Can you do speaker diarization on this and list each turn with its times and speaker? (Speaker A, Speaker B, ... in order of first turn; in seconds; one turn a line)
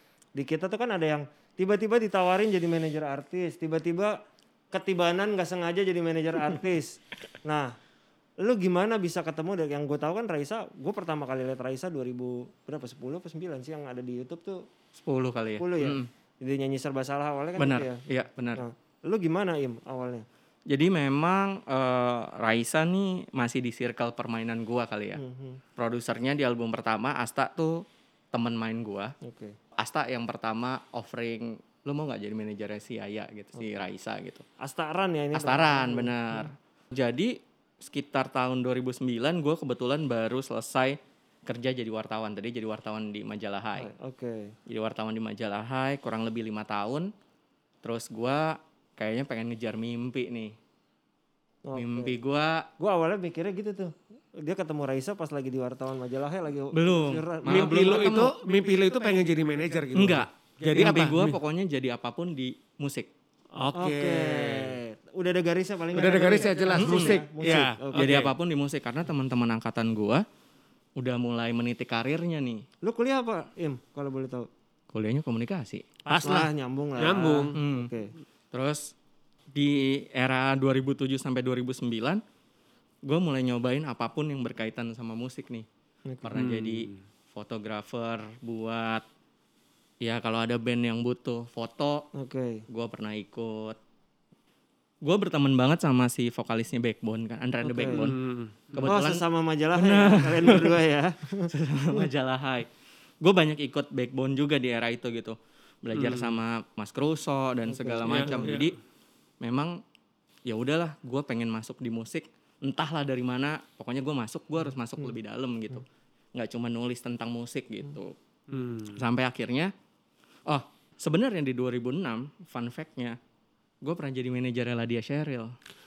Speaker A: 0.3-7.8
Speaker A: 8.4-14.7
Speaker B: 15.0-16.1
Speaker A: 15.6-18.0
Speaker B: 17.6-18.6
Speaker A: 18.6-20.3
Speaker B: 20.7-25.2
Speaker A: 25.2-25.6
Speaker B: 25.8-29.1
Speaker A: 29.2-29.6
Speaker B: 29.8-34.4
Speaker A: 34.6-36.5
Speaker B: 35.3-43.9
Speaker A: 43.8-44.5
Speaker B: 44.7-47.1
Speaker B: 47.8-50.5
Speaker A: 51.7-52.1
Speaker B: 51.7-52.7
Speaker A: 52.8-58.1
Speaker B: 56.7-58.3
Speaker C: 57.5-61.4
Speaker B: 60.0-63.1
Speaker C: 63.6-64.8
Speaker A: 63.8-68.1
Speaker C: 65.9-68.3
Speaker B: 66.8-67.2
Speaker B: 67.9-70.2
Speaker B: 71.0-72.7
Speaker A: 72.8-74.5
Speaker B: 74.9-75.8
Speaker C: 76.1-77.5
Speaker A: 76.2-78.1
Speaker B: 77.5-77.9
Speaker B: 78.5-78.9
Speaker B: 79.5-82.2
Speaker B: 83.0-85.7
Speaker B: 86.2-89.0
Speaker C: 86.4-86.9
Speaker B: 90.0-92.1
Speaker A: 92.1-92.6
Speaker B: 92.7-93.8
Speaker B: 95.0-98.2
Speaker A: 97.6-98.0
Speaker C: 97.9-98.9
Speaker B: 98.8-100.7
Speaker A: 98.8-102.0
Speaker B: 101.5-102.7
Speaker B: 103.2-108.8
Speaker C: 106.0-106.4
Speaker A: 107.7-108.6
Speaker C: 108.1-108.7
Speaker B: 109.4-109.8
Speaker B: 110.5-118.2
Speaker C: 118.5-119.0
Speaker B: 118.9-119.7
Speaker B: 120.5-123.2
Speaker B: 123.8-125.6